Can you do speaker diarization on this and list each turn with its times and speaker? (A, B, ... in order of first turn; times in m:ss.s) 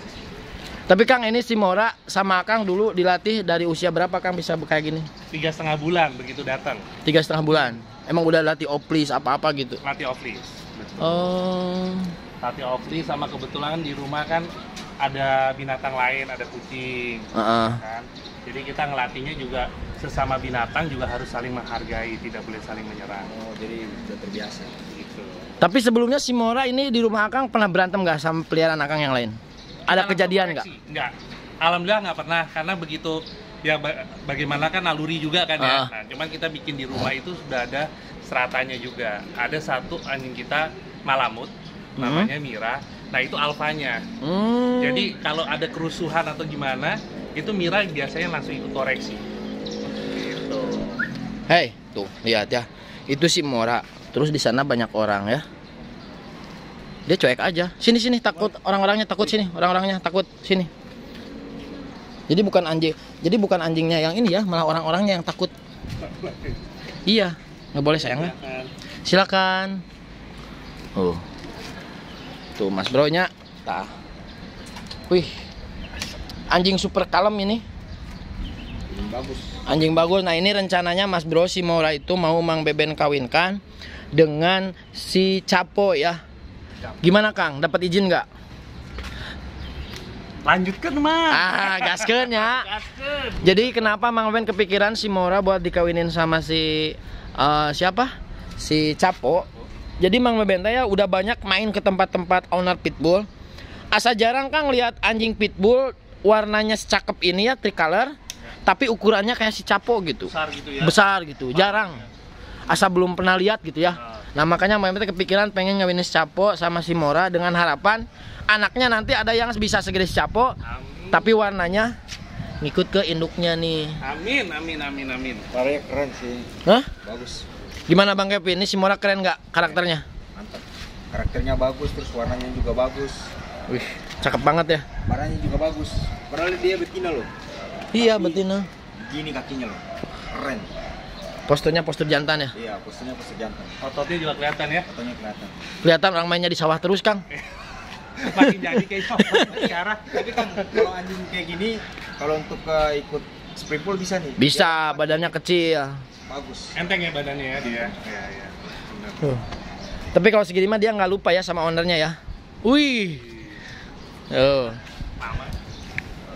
0:00.9-0:05.1 A
0:05.3-0:06.8 B
0:07.0-0:09.8 A
0:09.8-0:11.3 B
0:11.0-0:12.1 A
0:12.4-0:14.5 B
0:15.0-0:23.3 B
0:17.4-0:17.8 A
0:23.2-0:24.8 C
0:24.9-0:25.5 B
0:25.6-0:29.4 A
0:29.9-0:30.7 A
0:29.9-0:44.0 B
0:35.6-0:35.9 A
0:42.0-0:42.3 A
0:44.2-0:45.2 A
0:44.8-0:49.2 B
0:50.1-0:51.0 B
0:51.5-0:55.4 A
0:57.1-1:00.7 A
1:02.3-1:05.5 A
1:06.0-1:06.6 B
1:07.1-1:08.3 A
1:07.9-1:08.7 B
1:09.0-1:09.8 A
1:11.0-1:11.2 A
1:12.6-1:13.9 A
1:16.5-1:17.6 A
1:18.9-1:19.6 C
1:19.7-1:23.6 A
1:24.1-1:26.2 A
1:27.0-1:28.3 A
1:30.4-1:33.8 B
1:31.3-1:32.7 A
1:33.4-1:39.5 A
1:40.0-1:43.3 A
1:43.9-1:48.1 A
1:48.7-1:52.0 A
1:50.3-1:51.0 B
1:51.5-1:52.0 B
1:52.7-2:00.6 A
2:00.6-2:01.3 B
2:01.1-2:01.9 A
2:02.6-2:04.0 A
2:04.0-2:05.5 B
2:05.5-2:06.5 C
2:06.6-2:06.9 A
2:07.0-2:07.4 C
2:07.9-2:10.0 A
2:10.4-2:13.3 C
2:13.7-2:14.9 A
2:15.0-2:17.3 C
2:17.9-2:18.5 C
2:17.9-2:18.7 A
2:19.0-2:20.7 C
2:21.5-2:22.6 A
2:22.6-2:23.8 C
2:23.8-2:24.9 B
2:24.9-2:25.6 C
2:25.8-2:27.2 A
2:28.2-2:30.4 B
2:29.2-2:29.6 A
2:30.1-2:35.3 C
2:34.4-2:36.0 A
2:36.3-2:36.8 C
2:36.8-2:39.4 B
2:40.1-2:43.2 A
2:44.3-2:44.8 A
2:45.2-2:45.6 B